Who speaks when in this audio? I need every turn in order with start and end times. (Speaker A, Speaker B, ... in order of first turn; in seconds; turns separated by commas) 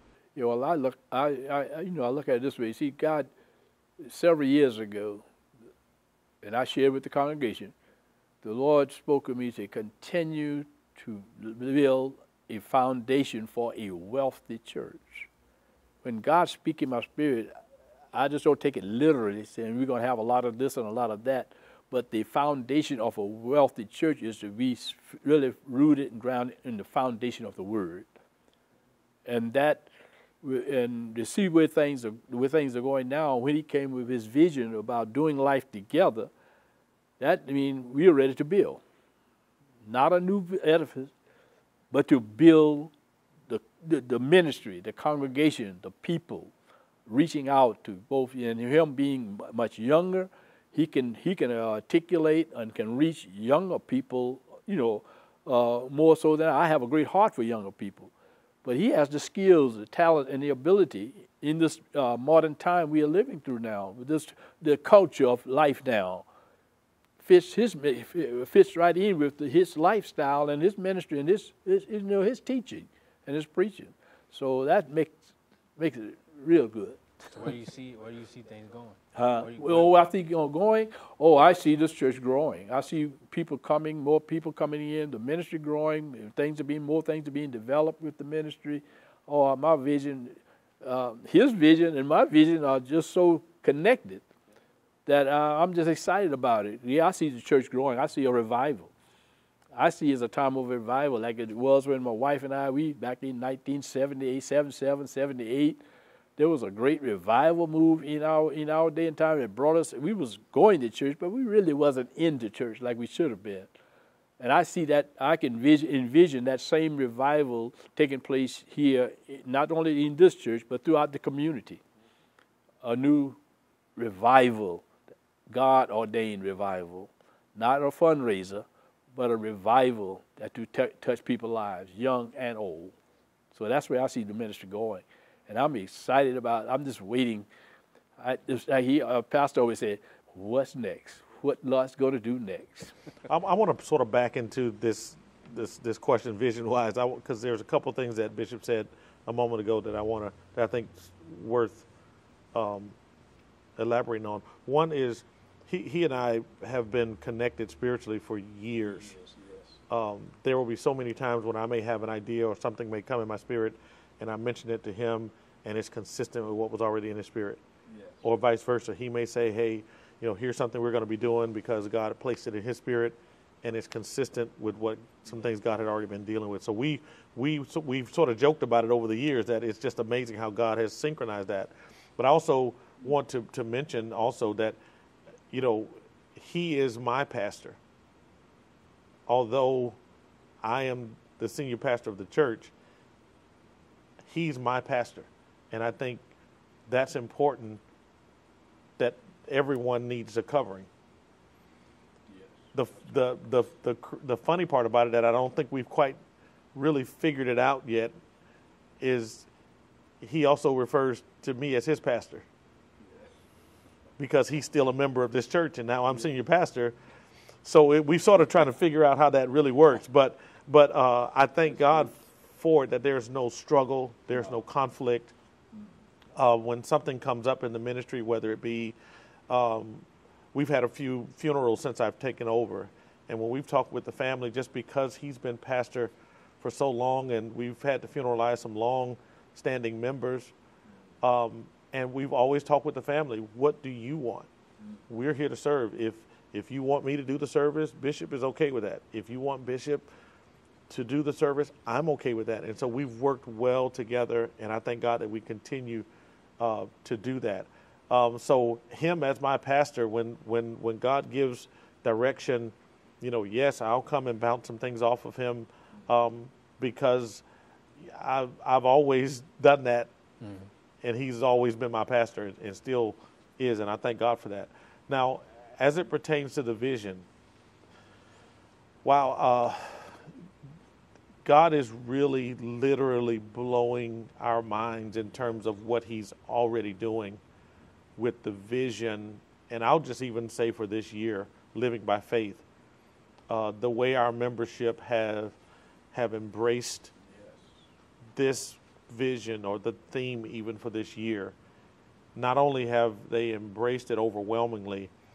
Speaker A: 0.3-3.3, Speaker A: 4.0-5.2, Speaker A: 6.4-7.7, Speaker A: 8.4-15.3, Speaker A: 16.0-17.5, Speaker A: 18.1-28.1, Speaker A: 29.2-29.9, Speaker A: 30.4-36.3, Speaker A: 37.2-38.8, Speaker A: 39.9-41.1, Speaker A: 41.9-42.9, Speaker A: 43.5-46.5, Speaker A: 47.1-58.1, Speaker A: 58.6-66.2, Speaker A: 67.2-75.2, Speaker A: 75.8-77.5, Speaker B: 77.3-79.9, Speaker A: 79.1-94.2, Speaker A: 95.0-98.9, Speaker A: 99.7-105.8, Speaker A: 106.4-113.7, Speaker A: 114.4-121.8, Speaker A: 122.8-123.4, Speaker A: 124.0-124.8, Speaker A: 125.5-132.9, Speaker A: 133.5-137.5, Speaker A: 138.2-142.9, Speaker C: 143.3-151.9, Speaker C: 152.5-152.9, Speaker C: 153.8-159.2, Speaker A: 158.9-159.8, Speaker C: 159.9-167.6, Speaker A: 167.9-168.2, Speaker C: 168.2-184.8, Speaker C: 185.5-187.8, Speaker C: 189.3-190.0, Speaker C: 190.6-192.7, Speaker C: 194.2-196.3, Speaker C: 196.9-197.8, Speaker C: 199.0-200.9, Speaker A: 202.3-202.7, Speaker C: 202.7-206.2, Speaker C: 206.7-208.1, Speaker C: 209.0-209.5, Speaker C: 210.2-212.4, Speaker C: 214.2-216.9, Speaker C: 217.6-225.3, Speaker C: 226.3-229.0, Speaker C: 229.5-240.5, Speaker C: 241.2-244.5, Speaker C: 245.1-250.1, Speaker C: 250.9-256.1, Speaker C: 256.6-267.4, Speaker C: 268.0-270.1, Speaker C: 271.0-277.3, Speaker C: 279.0-280.3, Speaker C: 281.4-287.4, Speaker C: 288.2-292.6, Speaker C: 293.5-295.6, Speaker C: 296.1-297.1, Speaker A: 297.3-297.6, Speaker C: 298.3-301.6, Speaker C: 302.3-305.1